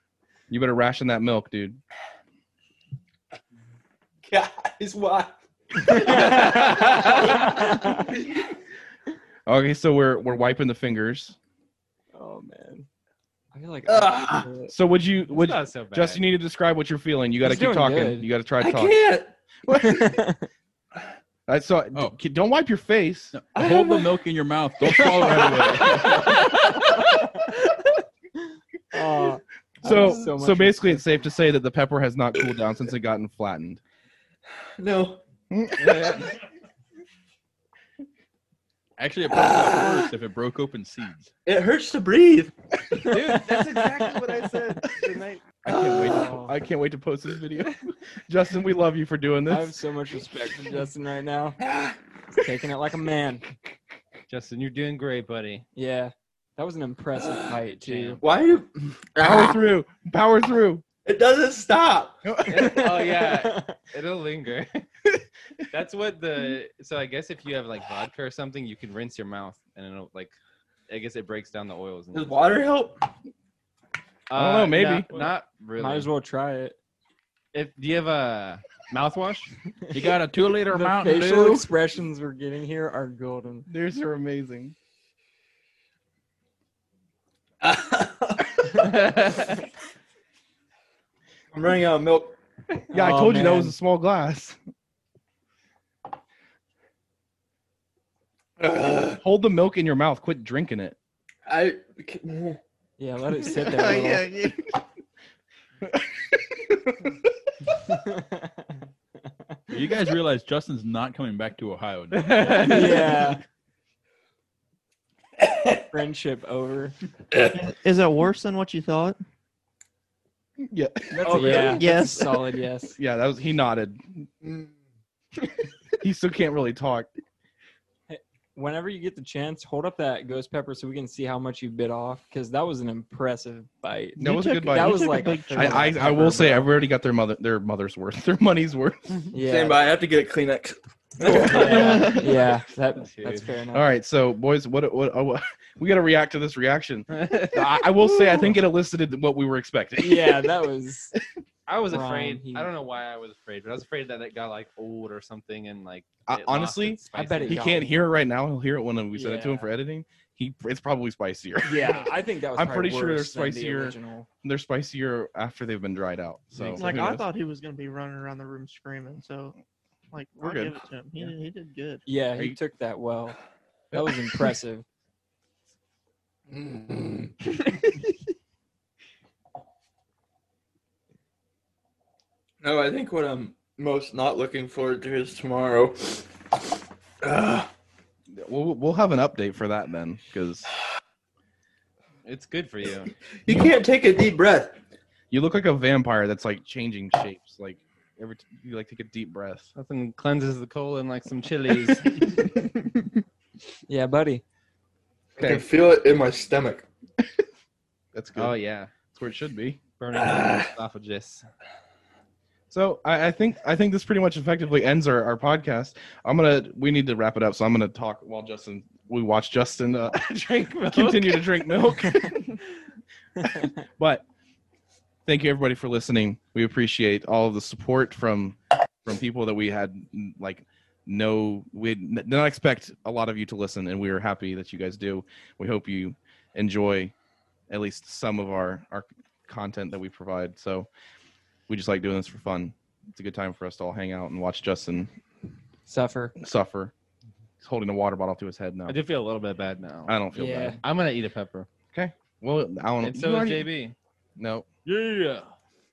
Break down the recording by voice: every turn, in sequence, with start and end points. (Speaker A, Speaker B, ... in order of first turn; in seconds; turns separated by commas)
Speaker A: 0.5-1.8, Speaker B: 4.2-8.5, Speaker C: 5.8-8.1, Speaker A: 6.0-7.5, Speaker D: 6.2-6.9, Speaker A: 9.4-11.3, Speaker C: 12.1-12.9, Speaker C: 13.5-14.7, Speaker A: 14.0-18.9, Speaker D: 15.3-16.2, Speaker C: 17.4-18.3, Speaker B: 18.6-19.3, Speaker A: 19.6-20.3, Speaker C: 19.8-20.4, Speaker A: 21.5-23.3, Speaker E: 23.3-26.2, Speaker B: 23.5-24.0, Speaker A: 25.3-26.4, Speaker B: 26.1-26.3, Speaker C: 26.5-27.3, Speaker C: 28.9-31.0, Speaker A: 29.8-33.8, Speaker B: 34.8-35.2, Speaker A: 35.5-36.4, Speaker D: 35.8-36.3, Speaker E: 39.0-41.3, Speaker B: 39.3-40.1, Speaker B: 41.5-42.5, Speaker D: 43.0-45.5, Speaker C: 43.5-44.0, Speaker A: 45.6-49.7, Speaker B: 45.7-46.3, Speaker C: 46.1-46.5, Speaker C: 49.5-51.6, Speaker B: 51.6-52.0, Speaker C: 52.3-53.5, Speaker D: 54.3-55.6, Speaker C: 55.7-58.2, Speaker D: 57.9-58.2, Speaker B: 58.2-59.5, Speaker A: 59.2-60.8, Speaker B: 61.0-62.2, Speaker A: 62.2-63.2, Speaker D: 62.5-64.8, Speaker C: 62.5-63.8, Speaker D: 65.7-70.3, Speaker D: 70.9-72.3, Speaker B: 72.1-73.1, Speaker D: 74.3-76.1, Speaker A: 74.3-75.1, Speaker C: 75.8-76.8, Speaker D: 77.5-79.5, Speaker E: 79.9-81.7, Speaker C: 80.7-83.7, Speaker A: 83.7-84.7, Speaker B: 87.6-88.9, Speaker D: 88.9-89.5, Speaker B: 91.5-92.4, Speaker C: 92.9-93.7, Speaker A: 92.9-94.6, Speaker B: 98.6-99.2, Speaker A: 99.2-101.0, Speaker B: 101.5-102.6, Speaker C: 103.0-104.3, Speaker F: 103.6-104.6, Speaker A: 105.9-107.1, Speaker C: 107.8-108.6, Speaker E: 109.7-113.2, Speaker D: 112.1-113.1, Speaker C: 112.4-113.4, Speaker B: 115.4-115.8, Speaker C: 115.9-117.0, Speaker B: 117.3-117.6, Speaker F: 117.4-119.2, Speaker A: 120.6-121.8, Speaker C: 121.1-123.0, Speaker B: 121.3-121.8, Speaker F: 121.4-122.4, Speaker A: 123.0-124.3, Speaker B: 124.4-124.7, Speaker A: 126.0-127.1, Speaker C: 128.1-136.7, Speaker F: 134.2-136.1, Speaker A: 134.2-139.2, Speaker C: 139.3-139.8, Speaker B: 139.4-142.2, Speaker C: 141.3-143.8, Speaker A: 141.3-142.2, Speaker D: 141.4-142.3, Speaker D: 142.9-143.5, Speaker A: 143.7-150.6, Speaker D: 147.1-147.7, Speaker C: 150.0-151.1, Speaker D: 151.7-157.9, Speaker C: 151.9-152.7, Speaker A: 156.3-167.2, Speaker C: 157.1-157.9, Speaker C: 159.1-159.7, Speaker C: 161.6-164.3, Speaker D: 166.6-167.0, Speaker F: 166.7-169.5, Speaker F: 170.1-172.0, Speaker A: 170.4-170.8, Speaker C: 172.1-173.4, Speaker C: 173.9-174.8, Speaker B: 176.5-177.3, Speaker B: 182.6-186.3, Speaker B: 187.2-187.7, Speaker A: 188.3-190.7, Speaker D: 192.2-193.1, Speaker B: 193.4-194.8, Speaker A: 195.3-199.7, Speaker D: 199.7-202.6, Speaker C: 203.9-204.4, Speaker B: 205.4-206.9, Speaker A: 208.1-209.8, Speaker D: 208.3-208.9, Speaker D: 210.0-211.4, Speaker B: 210.2-210.7, Speaker A: 212.7-220.2, Speaker D: 220.1-221.5, Speaker A: 220.9-222.6, Speaker A: 223.4-224.2, Speaker A: 225.2-237.1, Speaker A: 237.7-240.9, Speaker A: 241.7-245.1, Speaker C: 245.9-246.3, Speaker A: 246.4-246.9, Speaker A: 247.6-249.0, Speaker D: 248.9-251.7, Speaker A: 250.1-250.8, Speaker C: 250.3-250.8, Speaker A: 251.9-253.7, Speaker D: 253.0-253.9, Speaker A: 254.4-254.7, Speaker D: 254.8-255.4, Speaker E: 255.0-255.4